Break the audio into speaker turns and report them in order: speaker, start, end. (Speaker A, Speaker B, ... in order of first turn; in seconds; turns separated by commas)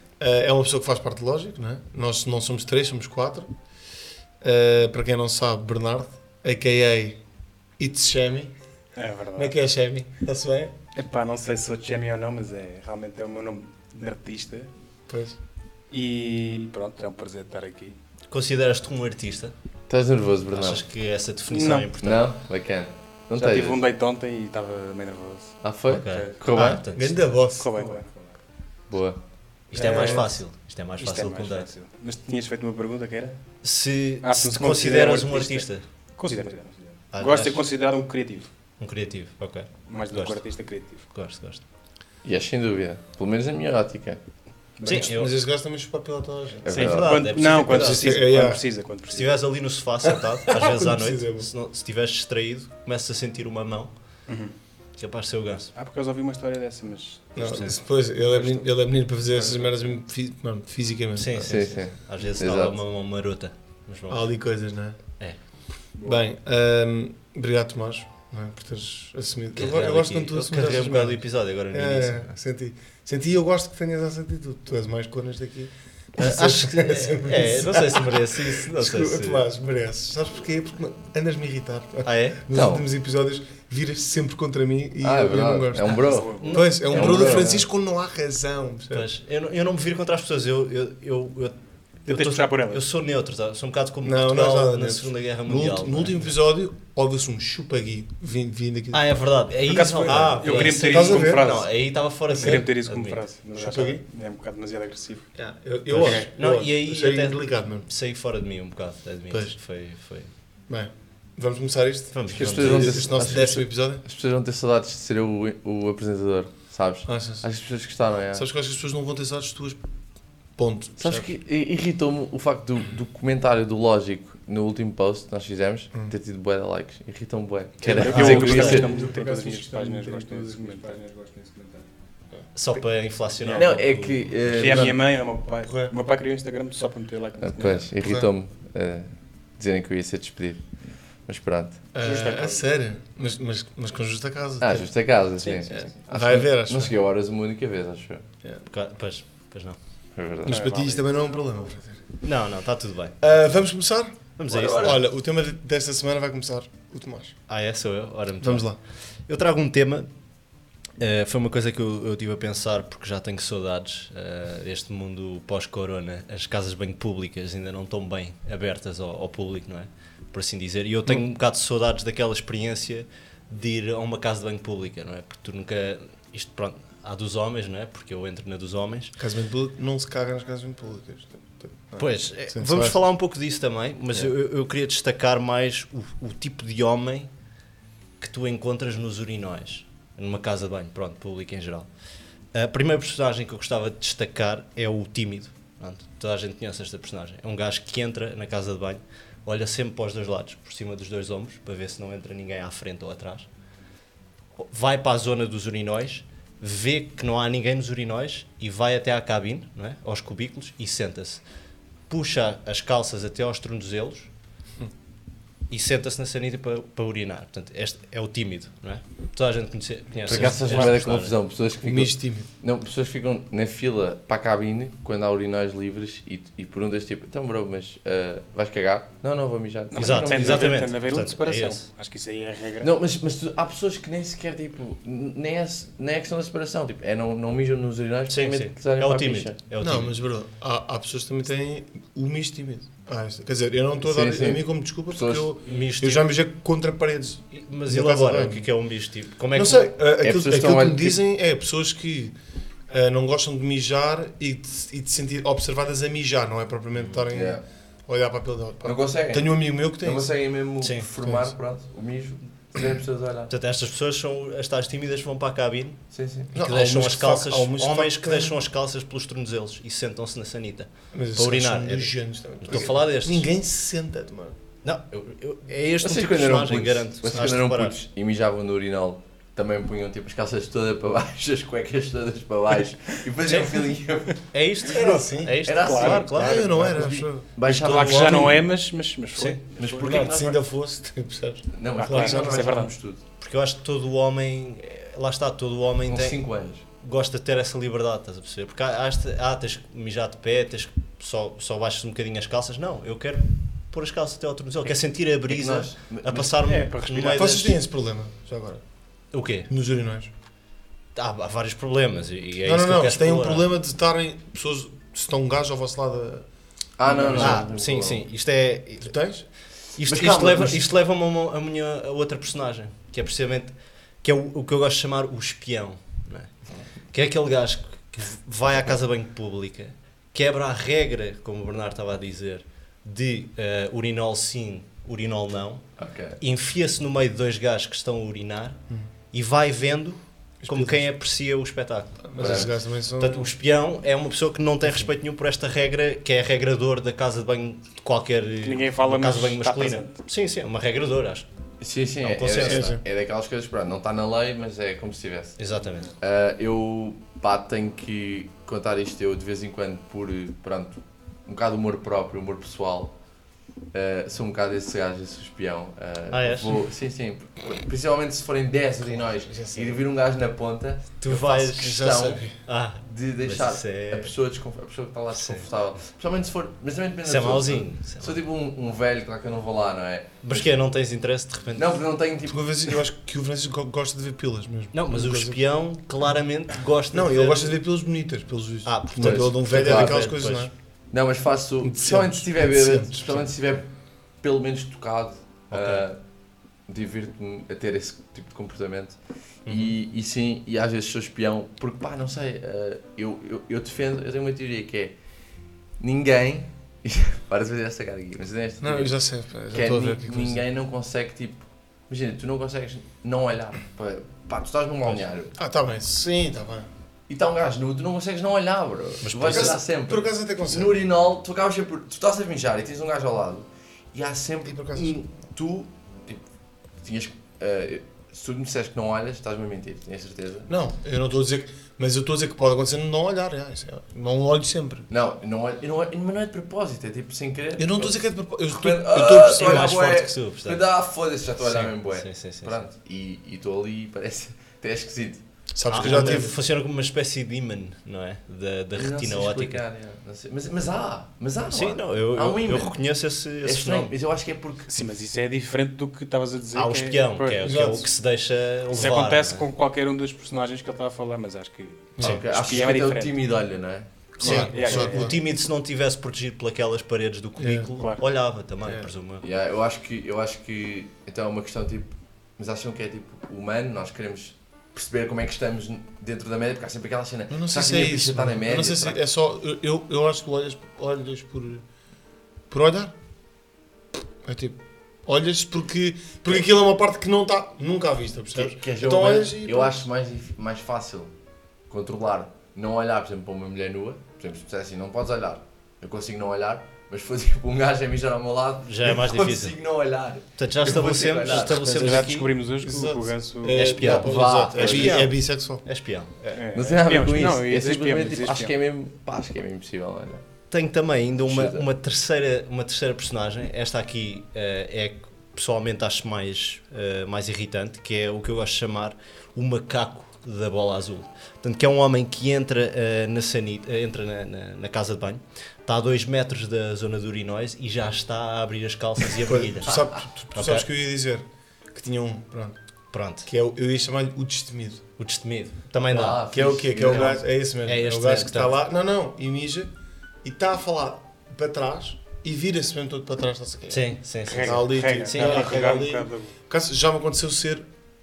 Speaker A: 0.2-3.5, Speaker A: 4.4-7.2, Speaker A: 7.8-8.5, Speaker B: 9.0-9.6, Speaker A: 9.4-10.7, Speaker B: 10.9-14.7, Speaker A: 15.1-15.4, Speaker B: 15.9-18.0, Speaker C: 18.3-19.5, Speaker D: 19.9-20.8, Speaker C: 20.5-22.3, Speaker B: 21.5-21.9, Speaker D: 22.0-23.8, Speaker B: 23.3-26.3, Speaker D: 25.6-26.8, Speaker C: 25.9-27.2, Speaker A: 26.6-27.7, Speaker B: 27.6-28.1, Speaker E: 27.7-28.4, Speaker D: 28.9-29.2, Speaker C: 29.7-31.7, Speaker B: 29.7-30.4, Speaker B: 31.0-33.4, Speaker C: 33.6-35.9, Speaker B: 34.2-38.5, Speaker E: 36.3-36.9, Speaker C: 37.1-37.6, Speaker C: 38.8-40.4, Speaker B: 39.9-41.1, Speaker C: 41.1-41.6, Speaker D: 42.2-44.2, Speaker E: 44.8-45.1, Speaker B: 44.8-45.1, Speaker C: 44.9-45.3, Speaker A: 44.9-46.8, Speaker D: 46.6-47.2, Speaker B: 46.7-49.3, Speaker C: 46.7-48.1, Speaker A: 47.5-48.6, Speaker C: 49.1-53.9, Speaker A: 50.5-51.5, Speaker B: 54.3-54.5, Speaker C: 55.0-55.7, Speaker B: 55.8-57.7, Speaker A: 57.4-61.7, Speaker C: 57.4-57.8, Speaker B: 58.2-58.7, Speaker B: 59.3-59.8, Speaker C: 61.1-64.3, Speaker D: 61.4-62.8, Speaker A: 64.1-65.0, Speaker A: 66.0-89.1, Speaker C: 69.5-72.3, Speaker C: 76.2-79.5, Speaker C: 82.0-82.4, Speaker D: 82.5-82.8, Speaker D: 85.0-87.6, Speaker B: 86.0-86.6, Speaker C: 86.3-87.6, Speaker C: 88.9-96.3, Speaker B: 92.1-92.8, Speaker A: 94.0-99.0, Speaker C: 98.9-103.2, Speaker B: 99.7-105.3, Speaker A: 100.0-101.5, Speaker A: 103.6-104.0, Speaker A: 105.4-107.9, Speaker C: 105.9-110.3, Speaker B: 106.0-106.3, Speaker A: 109.3-109.6, Speaker A: 110.7-114.0, Speaker C: 112.1-113.5, Speaker D: 112.3-118.5, Speaker A: 117.1-117.5, Speaker A: 118.3-119.8, Speaker A: 120.6-121.1, Speaker D: 121.0-129.0, Speaker B: 127.8-131.0, Speaker E: 127.8-131.9, Speaker C: 128.1-128.9, Speaker C: 132.6-134.9, Speaker B: 133.4-133.7, Speaker D: 133.6-135.0, Speaker B: 134.5-137.9, Speaker A: 135.7-135.9, Speaker D: 137.4-140.7, Speaker A: 138.0-138.3, Speaker D: 141.2-141.8, Speaker A: 141.9-144.9, Speaker B: 142.0-142.6, Speaker D: 144.6-148.3, Speaker A: 146.1-146.9, Speaker C: 148.7-149.8, Speaker D: 150.2-150.7, Speaker B: 150.4-151.1, Speaker A: 150.5-152.1, Speaker C: 152.2-153.2, Speaker A: 153.2-157.4, Speaker C: 154.4-155.0, Speaker D: 154.5-155.0, Speaker C: 157.5-158.7, Speaker A: 158.4-158.8, Speaker C: 159.3-160.1, Speaker C: 161.0-179.2, Speaker A: 179.2-183.0, Speaker C: 182.0-187.3, Speaker C: 188.2-191.9, Speaker C: 192.5-203.5, Speaker C: 204.6-211.4, Speaker C: 212.1-214.3, Speaker C: 215.7-221.3, Speaker D: 220.3-230.8, Speaker A: 221.8-222.5, Speaker B: 229.9-232.9, Speaker C: 230.0-231.9, Speaker D: 232.8-239.6, Speaker C: 238.3-240.1, Speaker A: 239.8-248.7, Speaker D: 244.0-245.5, Speaker C: 245.6-246.3, Speaker C: 247.5-249.9, Speaker A: 249.5-252.3, Speaker D: 250.2-251.2, Speaker A: 252.9-260.3, Speaker C: 257.0-257.2, Speaker D: 257.3-257.6, Speaker D: 258.8-263.5, Speaker C: 260.8-261.1, Speaker A: 261.2-261.5, Speaker C: 263.5-266.0, Speaker D: 266.1-266.5, Speaker A: 266.5-268.6, Speaker C: 266.6-273.5, Speaker A: 271.1-274.6, Speaker C: 274.8-278.0, Speaker D: 276.0-284.4, Speaker C: 283.4-287.1, Speaker A: 284.9-285.7, Speaker D: 285.6-288.6, Speaker B: 285.8-286.3, Speaker A: 286.3-287.5, Speaker C: 287.7-288.6, Speaker B: 287.7-290.3, Speaker C: 289.4-289.6, Speaker D: 289.8-290.6, Speaker A: 290.0-292.7, Speaker D: 291.7-293.2, Speaker B: 292.0-292.9, Speaker C: 293.4-307.7, Speaker D: 296.1-296.8, Speaker D: 305.5-306.6, Speaker B: 306.6-307.7, Speaker A: 307.3-308.8, Speaker C: 309.3-309.7, Speaker A: 309.7-310.3, Speaker C: 311.1-313.7, Speaker A: 312.6-316.5, Speaker D: 317.0-318.2, Speaker B: 317.1-317.5, Speaker A: 317.1-317.6, Speaker C: 317.3-319.1, Speaker A: 319.0-319.5, Speaker C: 320.0-326.5, Speaker D: 320.0-320.8, Speaker C: 327.1-335.9, Speaker D: 336.0-336.4, Speaker C: 336.4-338.8, Speaker C: 339.3-351.4, Speaker A: 340.6-341.1, Speaker A: 342.2-343.5, Speaker D: 342.4-342.7, Speaker B: 348.6-350.1, Speaker D: 351.8-355.6, Speaker C: 352.2-353.0, Speaker A: 352.6-353.0, Speaker C: 355.6-356.1, Speaker D: 356.2-363.2, Speaker D: 363.9-372.5, Speaker C: 366.3-366.8, Speaker A: 369.0-370.0, Speaker C: 371.2-374.3, Speaker A: 371.3-372.6, Speaker D: 373.0-380.8, Speaker C: 375.3-375.7, Speaker C: 377.2-378.4, Speaker C: 380.4-382.0, Speaker D: 381.8-382.9, Speaker A: 382.5-385.6, Speaker C: 384.9-387.7, Speaker A: 387.1-390.7, Speaker C: 388.9-390.7, Speaker D: 389.2-390.3, Speaker D: 391.1-393.9, Speaker A: 391.8-393.5, Speaker D: 394.4-396.2, Speaker C: 395.7-396.1, Speaker D: 396.9-405.1, Speaker C: 399.7-399.9, Speaker D: 406.0-409.1, Speaker A: 408.8-410.6, Speaker D: 409.7-415.5, Speaker A: 415.6-416.9, Speaker D: 417.3-426.4, Speaker C: 419.2-419.8, Speaker A: 419.5-421.0, Speaker A: 424.7-425.2, Speaker D: 427.0-430.7, Speaker A: 430.7-435.1, Speaker D: 435.1-445.4, Speaker A: 437.8-440.0, Speaker C: 439.2-440.8, Speaker C: 441.6-442.9, Speaker A: 445.7-446.6, Speaker C: 445.9-449.8, Speaker D: 446.0-446.4, Speaker D: 449.0-453.0, Speaker C: 451.7-454.1, Speaker D: 453.6-454.9, Speaker B: 454.9-458.0, Speaker C: 456.7-459.7, Speaker A: 457.6-458.1, Speaker B: 458.9-463.4, Speaker A: 462.2-462.4, Speaker D: 462.2-464.6, Speaker A: 464.4-465.4, Speaker C: 464.4-469.4, Speaker B: 464.4-465.4, Speaker A: 467.6-467.9, Speaker A: 468.8-469.1, Speaker D: 469.4-479.2, Speaker A: 477.5-481.9, Speaker A: 482.7-483.1, Speaker A: 484.4-490.1, Speaker D: 488.6-491.3, Speaker D: 491.9-502.1, Speaker C: 498.9-499.8, Speaker C: 500.6-502.5, Speaker B: 501.5-503.9, Speaker A: 501.9-502.3, Speaker A: 502.8-505.8, Speaker C: 503.7-506.6, Speaker D: 504.0-505.3, Speaker B: 506.5-508.7, Speaker D: 506.7-510.4, Speaker C: 510.7-530.9, Speaker D: 511.4-511.9, Speaker A: 529.5-532.8, Speaker C: 533.1-533.5, Speaker A: 533.5-535.0, Speaker C: 535.2-536.5, Speaker D: 536.1-537.4, Speaker A: 536.5-539.9, Speaker C: 537.0-538.7, Speaker A: 540.4-547.9, Speaker C: 543.9-545.8, Speaker B: 544.5-546.5